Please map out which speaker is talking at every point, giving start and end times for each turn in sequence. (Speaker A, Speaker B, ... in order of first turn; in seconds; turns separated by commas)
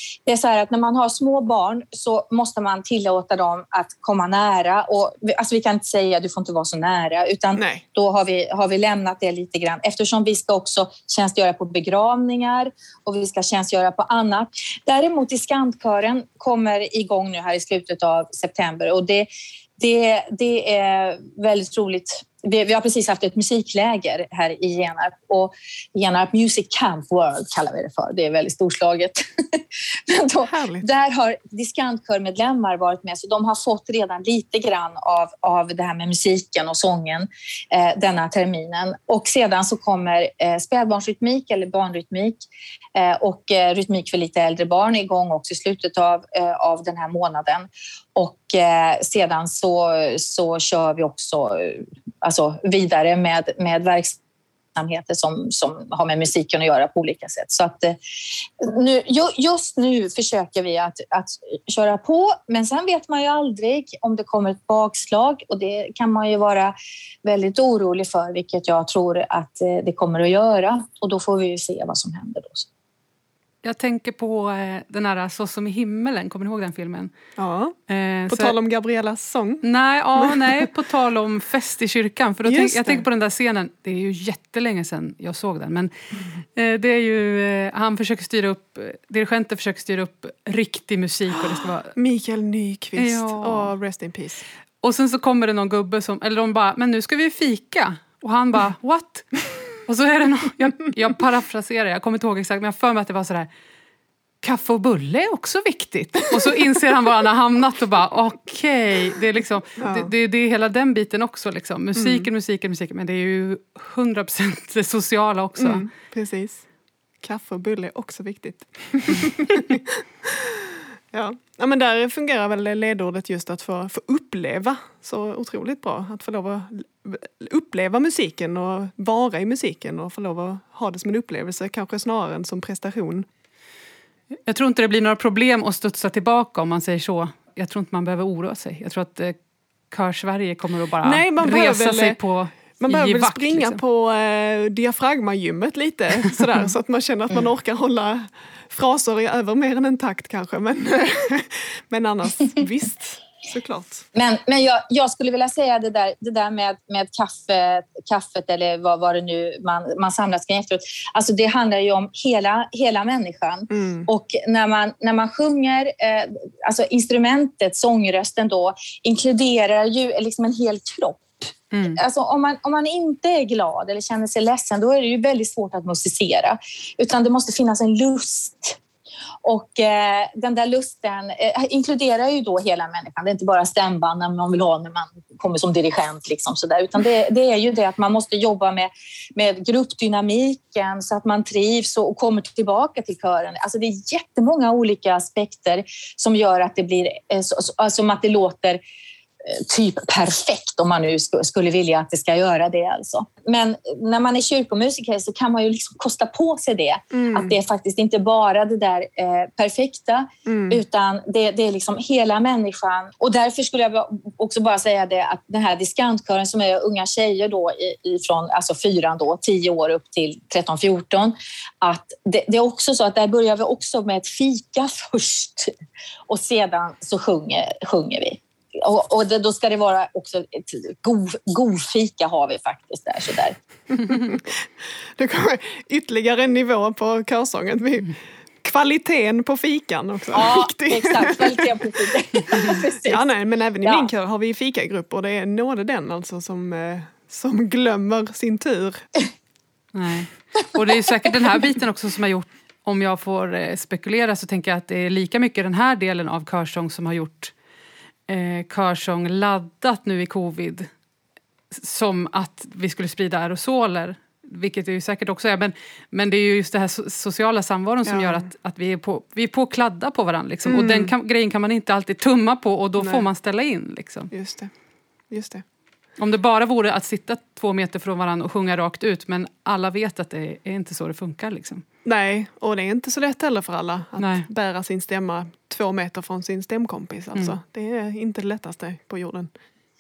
Speaker A: 0.3-54.2, Speaker B: 7.6-7.8, Speaker B: 30.5-30.9, Speaker A: 54.8-58.0, Speaker A: 58.6-72.7, Speaker C: 73.6-77.1, Speaker B: 77.4-77.8, Speaker C: 77.9-78.6, Speaker B: 78.3-79.6, Speaker C: 79.6-85.9, Speaker B: 80.2-80.7, Speaker B: 82.5-83.0, Speaker C: 86.5-92.0, Speaker B: 91.9-94.4, Speaker C: 93.0-93.7, Speaker C: 94.8-103.5, Speaker C: 104.4-115.9, Speaker B: 109.8-110.1, Speaker B: 112.0-112.3, Speaker B: 115.6-116.7, Speaker B: 117.2-133.3, Speaker C: 134.5-139.4, Speaker C: 139.9-143.8, Speaker B: 141.0-142.2, Speaker B: 142.8-154.1, Speaker A: 154.2-178.8, Speaker B: 163.7-164.1, Speaker C: 171.7-172.0, Speaker A: 179.4-198.8, Speaker A: 199.4-225.7, Speaker B: 207.1-207.6, Speaker B: 210.5-210.8, Speaker A: 226.3-233.6, Speaker B: 233.9-241.8, Speaker A: 240.3-243.3, Speaker B: 242.5-249.1, Speaker A: 243.8-244.1, Speaker C: 249.9-257.5, Speaker C: 258.3-260.9, Speaker C: 261.7-274.3, Speaker B: 268.1-268.5, Speaker B: 270.6-271.1, Speaker B: 273.0-273.3, Speaker B: 274.3-274.7, Speaker B: 275.3-275.6, Speaker C: 276.2-281.9, Speaker B: 282.1-289.5, Speaker C: 284.2-284.5